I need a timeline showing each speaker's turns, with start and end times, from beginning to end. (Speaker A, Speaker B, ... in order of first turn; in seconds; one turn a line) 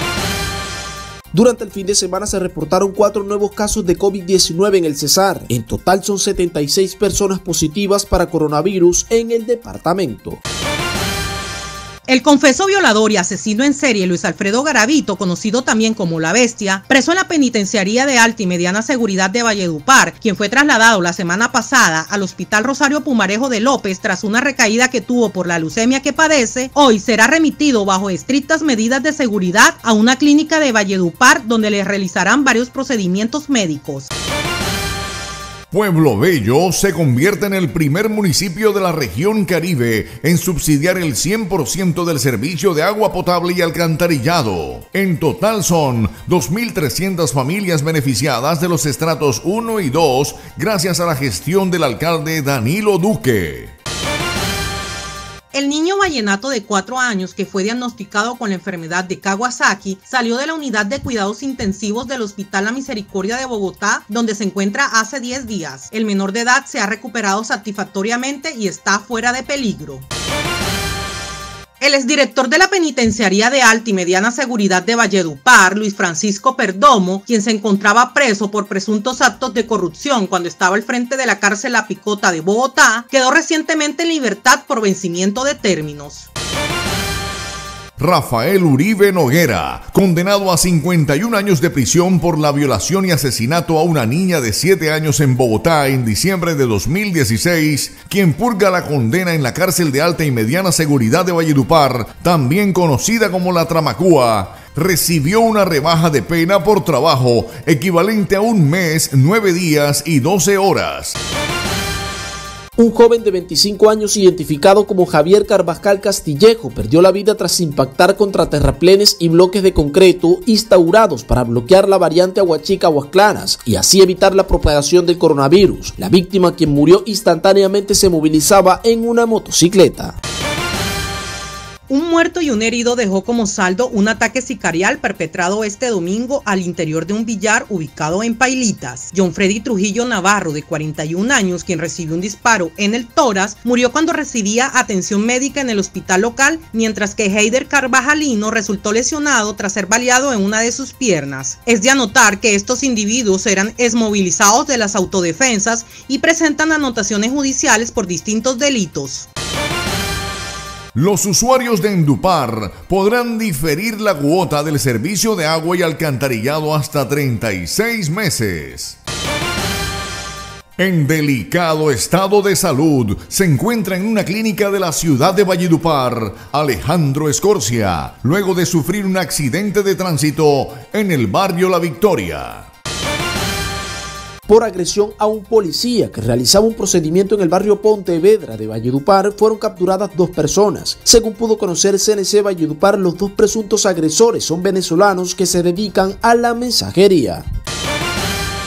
Speaker A: 1.3-10.4
Speaker B: 12.1-34.1
Speaker C: 35.7-53.7
Speaker B: 55.5-70.1
Speaker B: 71.8-86.3
Speaker C: 88.0-111.2
Speaker A: 112.8-130.2
Speaker B: 131.9-159.3
Speaker C: 160.9-169.0
Speaker C: 170.8-182.7
Speaker A: 184.5-197.4